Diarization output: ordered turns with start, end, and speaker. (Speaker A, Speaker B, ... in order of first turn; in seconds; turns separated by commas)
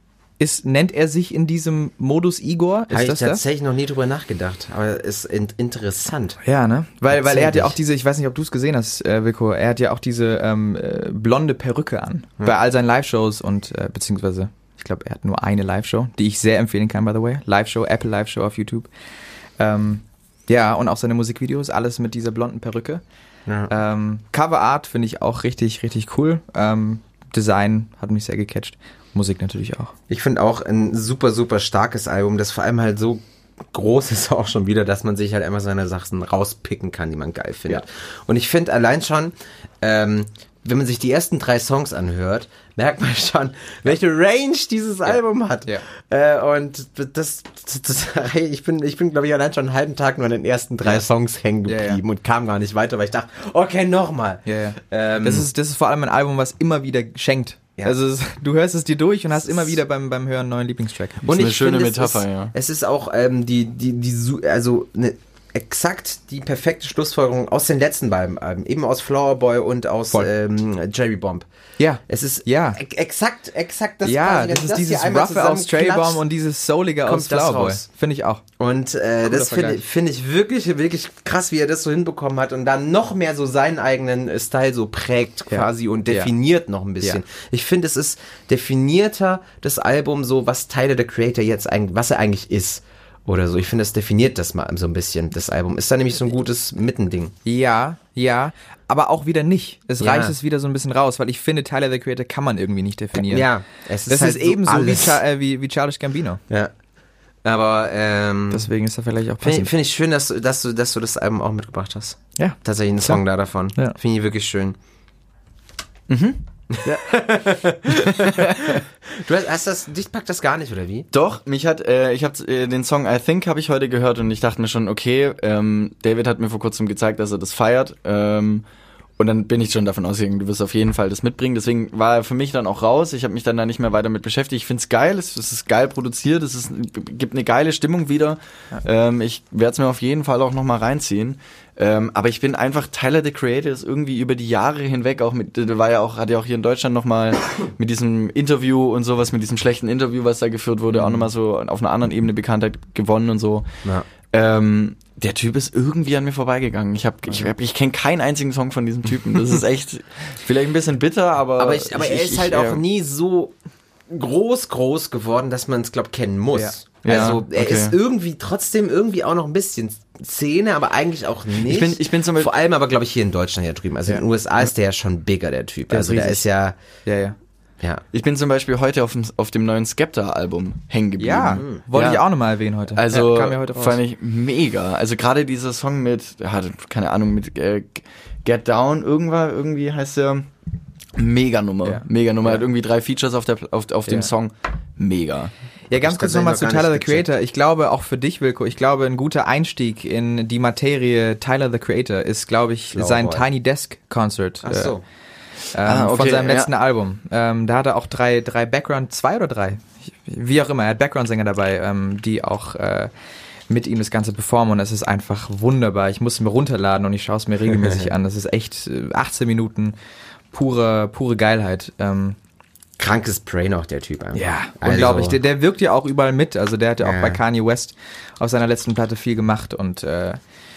Speaker A: 0.4-3.4, Speaker B: 2.9-6.4, Speaker A: 6.4-18.9, Speaker B: 7.1-7.8, Speaker A: 19.6-23.0, Speaker B: 23.5-23.7, Speaker A: 23.7-29.9, Speaker B: 30.1-55.5, Speaker A: 45.1-45.8, Speaker A: 51.6-52.0, Speaker A: 54.5-61.2, Speaker B: 59.4-59.8, Speaker B: 61.2-71.5, Speaker C: 61.3-62.5, Speaker A: 71.8-72.8, Speaker B: 72.1-76.2, Speaker A: 74.0-78.4, Speaker B: 77.0-77.8, Speaker B: 78.6-97.3, Speaker A: 79.3-79.8, Speaker A: 85.5-86.3, Speaker A: 97.5-103.5, Speaker B: 100.0-100.3, Speaker B: 103.2-105.2, Speaker A: 104.1-106.4, Speaker B: 107.4-108.7, Speaker A: 108.5-109.7, Speaker B: 109.4-114.8, Speaker A: 112.4-113.2, Speaker C: 116.1-116.4, Speaker B: 117.0-118.5, Speaker B: 119.1-121.1, Speaker C: 121.1-128.6, Speaker C: 129.2-153.7, Speaker A: 150.9-151.3, Speaker C: 154.3-162.8, Speaker B: 161.6-163.5, Speaker B: 164.1-176.8, Speaker C: 167.0-167.9, Speaker C: 171.7-172.5, Speaker C: 176.0-176.4, Speaker A: 177.1-177.3, Speaker C: 178.1-182.2, Speaker A: 181.2-184.0, Speaker B: 181.6-181.8, Speaker C: 182.9-190.5, Speaker C: 191.2-195.5, Speaker A: 191.8-192.6, Speaker A: 195.9-205.0, Speaker B: 196.0-197.3, Speaker B: 202.9-203.4, Speaker B: 204.6-205.0, Speaker A: 205.7-213.1, Speaker C: 205.9-206.7, Speaker A: 213.7-219.9, Speaker B: 217.7-218.1, Speaker A: 220.5-222.4, Speaker B: 223.0-225.4, Speaker A: 224.3-230.4, Speaker B: 227.0-227.4